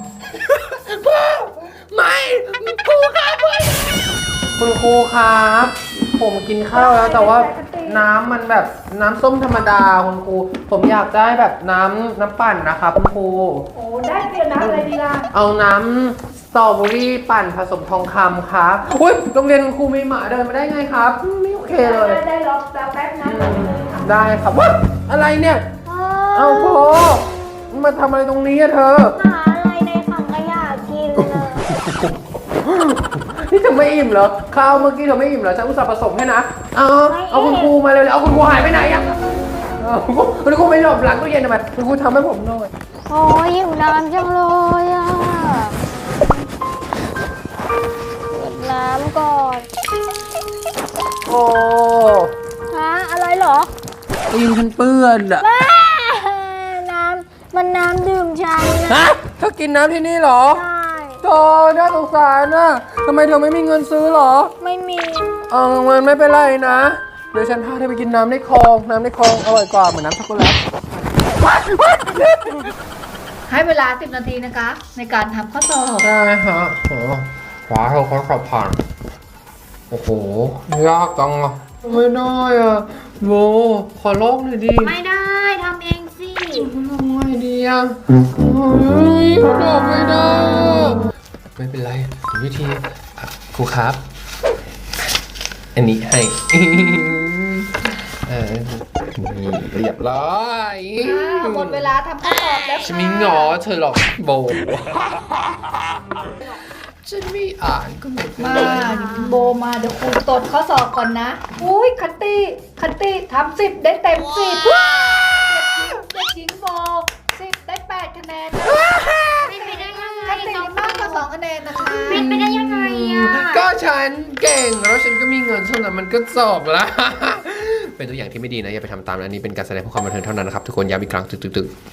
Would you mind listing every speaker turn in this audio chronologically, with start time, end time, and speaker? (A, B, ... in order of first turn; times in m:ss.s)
0:00.3-0:13.7 A
0:06.7-0:08.1 B
0:13.8-0:15.3 B
0:14.6-0:22.2 A
0:21.8-0:24.1 B
0:23.2-0:25.6 A
0:25.8-0:27.2 C
0:26.4-0:29.2 A
0:29.1-0:31.7 C
0:31.2-0:39.2 A
0:37.1-0:37.8 C
0:39.8-0:42.7 A
0:43.1-0:45.8 C
0:48.3-0:49.7 C
0:51.2-0:52.3 A
0:52.7-0:53.7 C
0:54.3-0:55.5 A
0:55.4-0:59.0 C
0:58.9-1:00.6 A
1:00.5-1:01.2 C
1:01.2-1:04.5 A
1:04.6-1:05.4 C
1:05.5-1:12.7 A
1:13.5-1:16.1 B
1:16.0-1:18.8 A
1:19.9-1:25.0 A
1:24.8-1:26.7 C
1:26.5-1:31.0 A
1:31.6-1:34.0 A
1:35.8-1:37.7 A
1:38.2-1:41.9 A
1:41.0-1:43.5 B
1:42.8-1:45.0 A
1:47.0-1:49.1 A
1:48.4-1:59.0 B
1:48.7-1:49.3 C
1:58.6-1:59.6 A
1:59.4-2:01.2 C
2:00.2-2:02.2 B
2:01.9-2:03.7 C
2:02.1-2:11.7 A